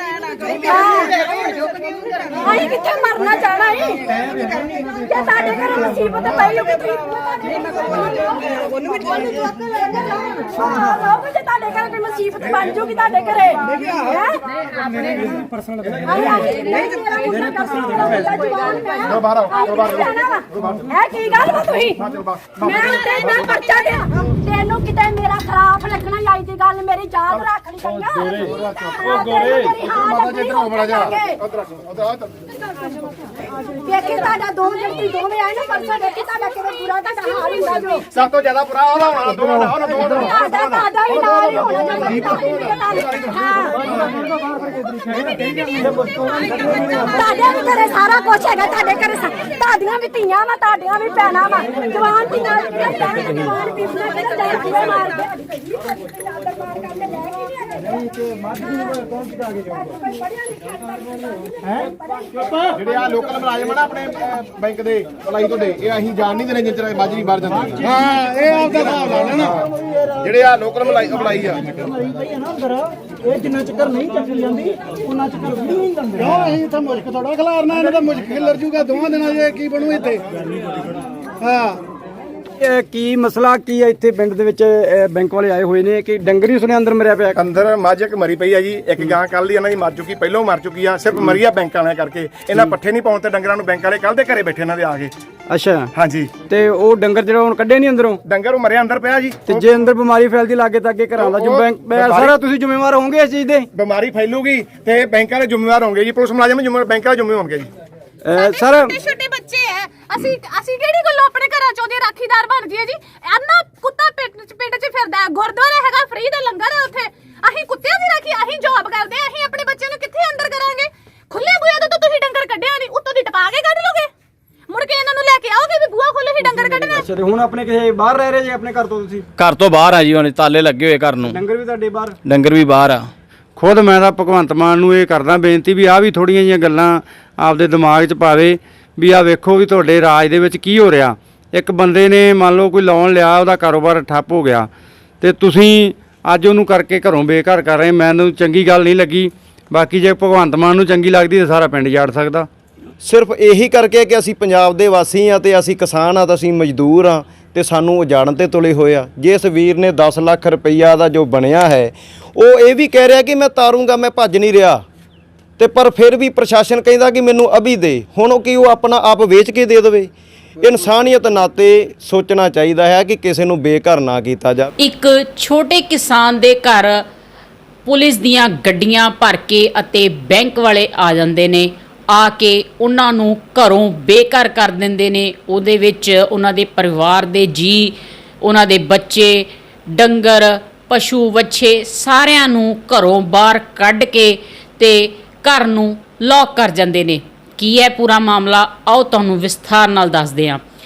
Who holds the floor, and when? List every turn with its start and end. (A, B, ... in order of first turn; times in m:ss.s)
0:00.5-0:01.5 A
0:02.4-0:14.4 A
0:16.0-0:31.4 A
0:22.1-0:22.5 B
0:27.8-0:29.8 C
0:31.4-0:32.3 B
0:33.8-0:38.1 A
0:38.1-0:40.8 B
0:40.2-0:43.9 A
0:46.6-1:00.8 A
1:01.8-1:02.8 A
1:02.8-1:09.6 B
1:10.2-1:11.9 B
1:13.3-1:15.8 C
1:17.2-1:20.2 B
1:21.5-1:21.8 B
1:22.6-1:27.4 C
1:27.4-1:35.1 B
1:35.5-1:38.2 C
1:36.0-1:36.4 B
1:38.3-1:39.7 B
1:39.4-1:43.7 C
1:41.2-1:42.3 B
1:43.8-1:47.7 B
1:48.2-1:49.0 C
1:48.3-2:04.1 D
2:04.7-2:07.1 D
2:06.4-2:09.2 C
2:09.4-2:11.4 E
2:11.3-2:12.2 C
2:12.2-2:13.0 E
2:13.6-2:24.7 F
2:25.2-2:32.5 F
2:33.0-2:44.8 G
2:45.6-2:54.7 G
2:54.8-2:57.0 H
2:57.9-3:20.6 H